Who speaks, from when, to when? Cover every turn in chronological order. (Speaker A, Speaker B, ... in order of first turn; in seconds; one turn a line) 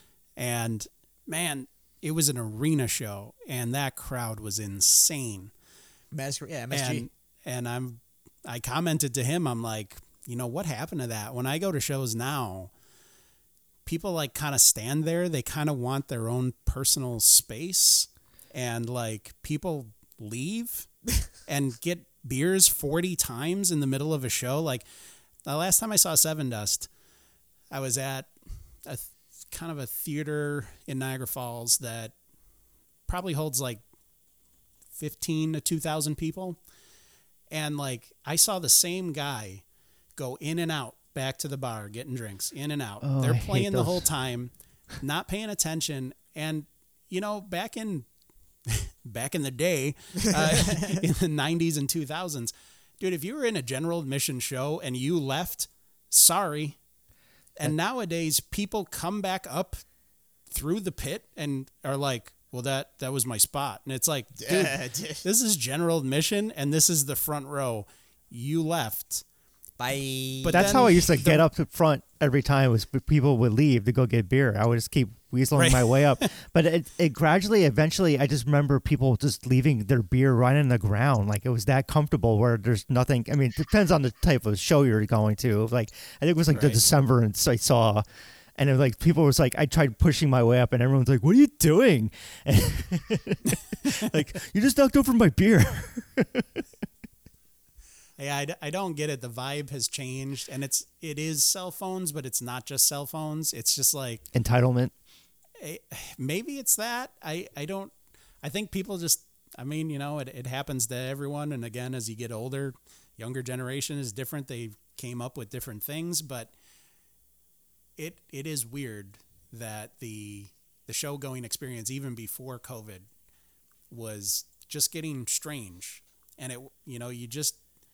Speaker A: 0.4-5.5
Speaker B: 6.1-7.1
Speaker A: 6.7-12.7
Speaker A: 13.8-20.9
Speaker A: 21.5-24.9
Speaker A: 25.4-26.9
Speaker A: 27.7-32.1
Speaker A: 33.1-33.8
Speaker A: 35.0-36.6
Speaker A: 37.5-39.6
Speaker A: 40.1-48.1
Speaker C: 43.0-44.1
Speaker A: 48.7-56.8
Speaker A: 57.6-59.8
Speaker A: 60.5-69.2
Speaker B: 64.4-65.2
Speaker B: 69.8-71.1
Speaker A: 70.4-71.4
Speaker C: 70.5-88.0
Speaker A: 75.5-76.2
Speaker A: 86.5-86.8
Speaker C: 88.5-96.6
Speaker A: 98.2-104.2
Speaker C: 104.3-104.9
Speaker A: 105.6-116.5
Speaker A: 118.0-123.1
Speaker A: 123.9-127.6